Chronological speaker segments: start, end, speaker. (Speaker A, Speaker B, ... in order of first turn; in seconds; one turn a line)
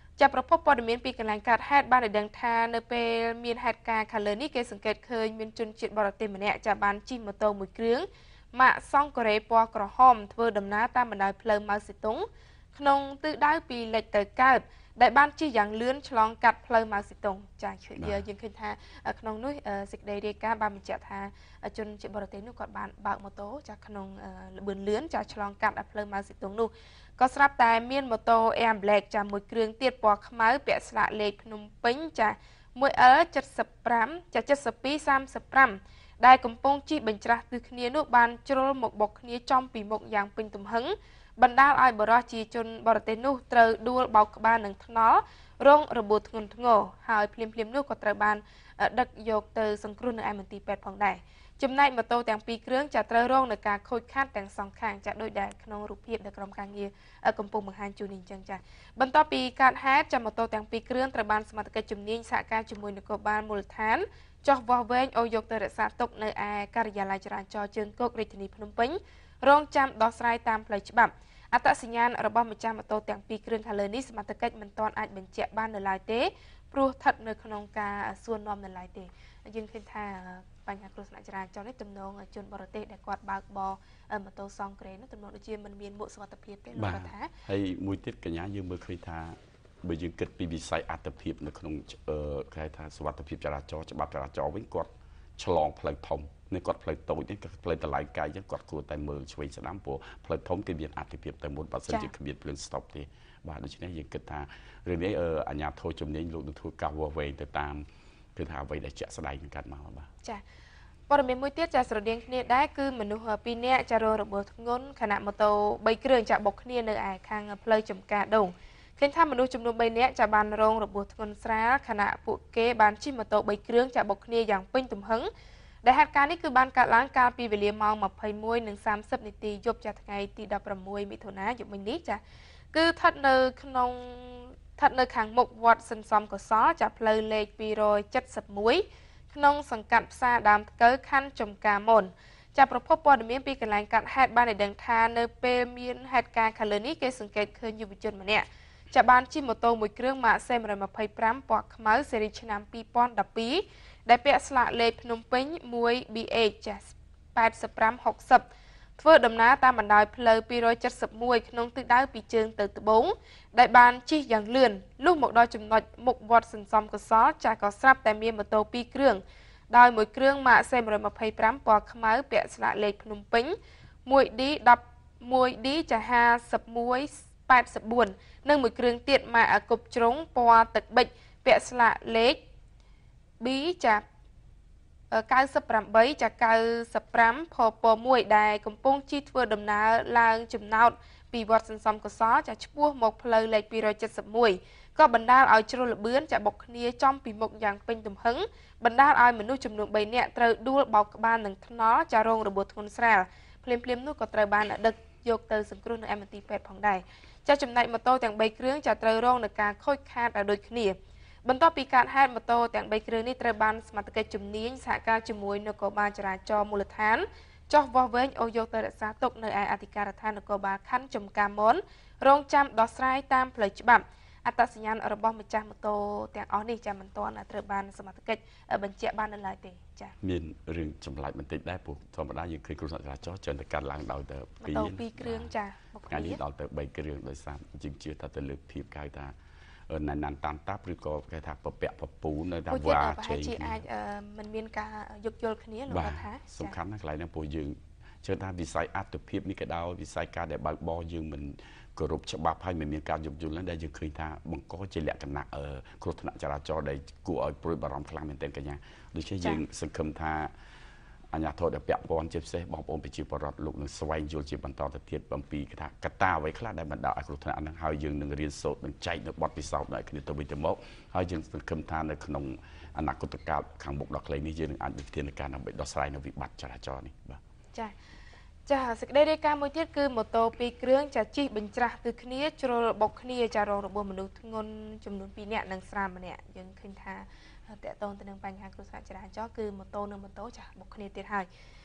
Speaker A: 0.2-87.3
Speaker B: 18.0-18.2
Speaker B: 86.7-107.8
Speaker A: 101.9-102.1
Speaker B: 108.3-110.1
Speaker A: 111.1-125.3
Speaker A: 125.8-132.2
Speaker A: 132.7-158.4
Speaker A: 159.0-182.4
Speaker A: 183.4-184.0
Speaker A: 185.1-230.1
Speaker B: 230.2-235.5
Speaker A: 234.6-236.4
Speaker B: 236.1-239.3
Speaker B: 239.9-243.8
Speaker A: 242.7-246.8
Speaker B: 245.9-260.5
Speaker B: 261.3-277.4
Speaker A: 278.7-291.5